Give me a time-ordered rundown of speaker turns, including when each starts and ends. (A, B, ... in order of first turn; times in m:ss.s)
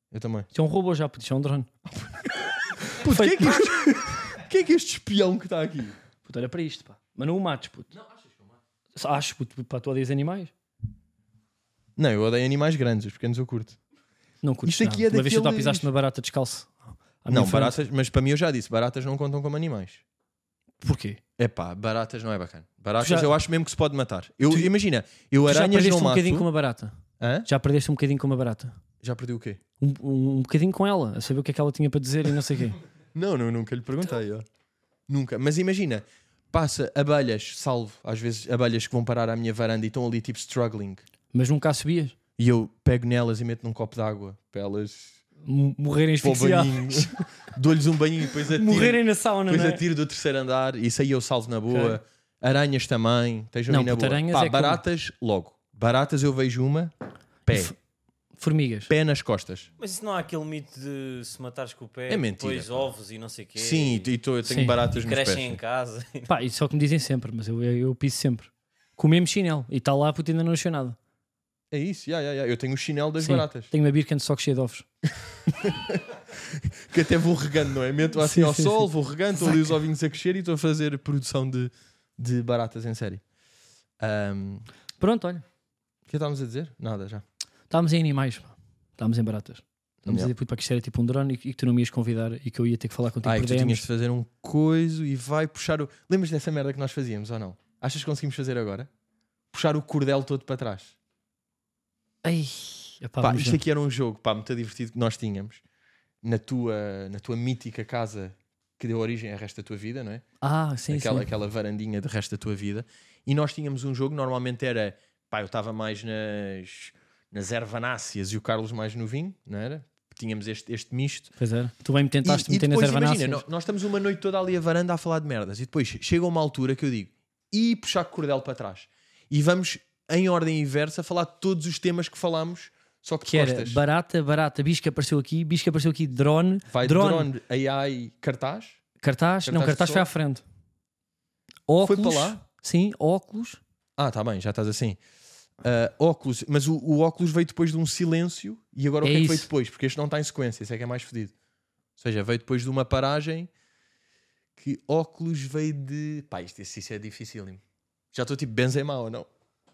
0:00.1-0:00.5 A
0:00.5-0:01.7 B
0:01.9-0:06.0 A
0:03.0-0:03.7 B
0:06.2-0:07.9 B
0:09.0-0:10.5 B
0:12.0-0:13.8 A
0:14.4-0:17.8 B
0:14.6-0:15.9 A
0:17.3-0:20.0 A
0:20.8-0:21.2 B
0:21.4-0:26.5 A
0:23.0-0:23.3 B
0:25.4-0:28.8 B
0:27.2-0:27.5 A
0:29.0-0:29.6 A
0:29.8-0:32.8 B
0:33.1-0:34.4 A
0:35.1-0:41.0 A
0:41.3-0:42.1 B
0:42.4-0:45.2 A
0:45.4-0:47.2 B
0:46.2-0:56.9 A
0:48.5-0:49.8 B
0:51.7-0:52.0 B
0:53.7-0:54.8 B
0:57.4-0:57.7 A
0:57.5-0:57.7 B
0:58.4-0:58.9 B
0:58.9-0:59.7 A
0:59.8-1:04.1 C
1:02.1-1:02.9 A
1:03.6-1:05.6 A
1:04.4-1:04.8 B
1:05.0-1:06.3 C
1:06.3-1:11.0 B
1:11.7-1:13.7 A
1:13.2-1:14.9 B
1:15.5-1:23.2 A
1:18.2-1:18.8 B
1:19.4-1:19.7 B
1:24.0-1:24.6 A
1:25.0-1:25.4 B
1:26.1-1:27.2 A
1:27.7-1:33.8 B
1:30.0-1:30.3 A
1:33.2-1:38.9 A
1:39.5-1:40.9 A
1:42.2-1:43.6 B
1:43.2-1:45.6 A
1:46.2-1:50.2 A
1:50.4-1:51.3 B
1:50.9-2:01.3 A
2:01.4-2:03.4 B
2:02.2-2:13.8 A
2:13.2-2:17.3 B
2:16.7-2:18.8 A
2:19.0-2:20.4 B
2:19.4-2:20.1 A
2:21.7-2:23.6 B
2:21.8-2:22.4 A
2:24.0-2:25.0 A
2:25.6-2:31.3 A
2:29.0-2:29.5 B
2:32.0-2:33.5 A
2:34.6-2:37.6 A
2:38.1-2:39.3 A